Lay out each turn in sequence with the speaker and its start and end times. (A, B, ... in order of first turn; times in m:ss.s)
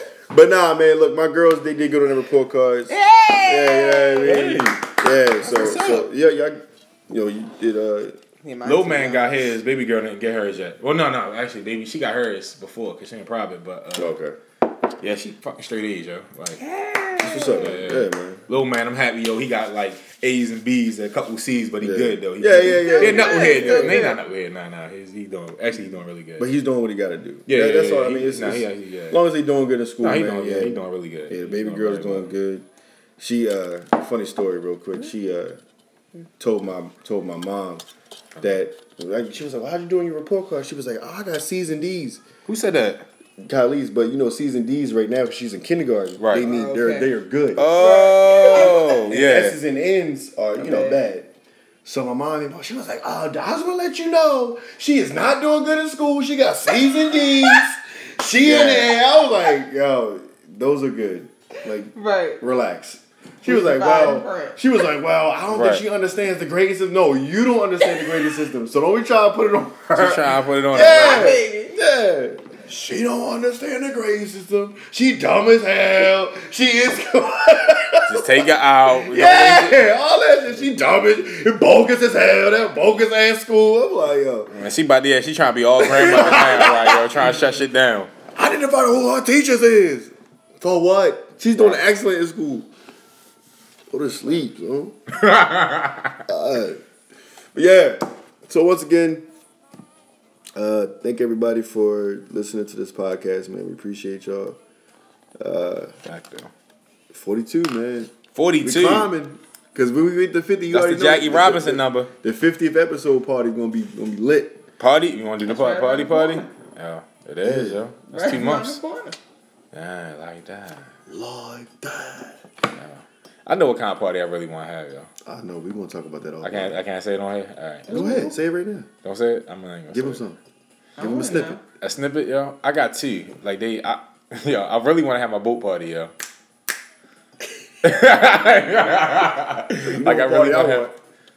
0:00.3-0:08.2 A
0:02.9-0:04.6 B
0:04.2-0:06.1 C
0:08.4-0:09.5 B
0:08.6-0:14.1 C
0:14.0-0:14.4 A
0:15.0-0:16.6 C
0:16.6-0:17.7 B
0:17.2-0:18.4 A
0:17.5-0:26.5 C
0:21.8-0:24.2 A
0:22.8-0:24.1 B
0:26.4-0:32.7 A
0:27.5-0:29.2 C
0:30.0-0:32.3 C
0:33.2-0:35.6 A
0:36.4-0:37.8 A
0:38.4-0:42.2 A
0:42.5-0:43.1 C
0:43.4-0:47.7 A
0:46.2-0:46.5 C
0:46.3-0:47.1 B
0:47.6-0:49.6 C
0:47.7-0:49.0 B
0:48.5-0:51.3 A
0:50.6-0:51.0 B
0:51.8-1:24.5 A
0:58.4-0:58.9 C
1:01.9-1:02.4 B
1:03.4-1:04.6 B
1:05.5-1:05.8 C
1:09.9-1:11.4 C
1:10.8-1:11.8 B
1:18.1-1:20.0 C
1:24.5-1:28.1 C
1:25.8-1:27.2 A
1:28.4-1:32.7 A
1:33.9-1:35.0 A
1:35.2-1:36.2 C
1:36.3-1:36.8 A
1:37.6-1:39.3 A
1:40.6-1:44.6 A
1:45.4-1:45.9 A
1:46.0-1:46.5 C
1:47.1-1:54.6 A
1:48.3-1:49.1 C
1:50.7-1:52.1 C
1:54.8-1:58.8 C
1:55.4-1:56.5 B
1:57.4-1:57.8 A
1:58.1-1:59.2 B
1:59.7-2:00.9 C
2:01.1-2:02.4 A
2:02.7-2:05.1 C
2:05.2-2:06.8 A
2:06.4-2:08.0 C
2:07.9-2:08.3 B
2:07.9-2:08.9 A
2:09.0-2:10.2 C
2:09.9-2:10.4 A
2:11.0-2:11.6 A
2:11.0-2:11.6 B
2:11.8-2:16.1 C
2:17.8-2:20.9 C
2:19.8-2:21.0 A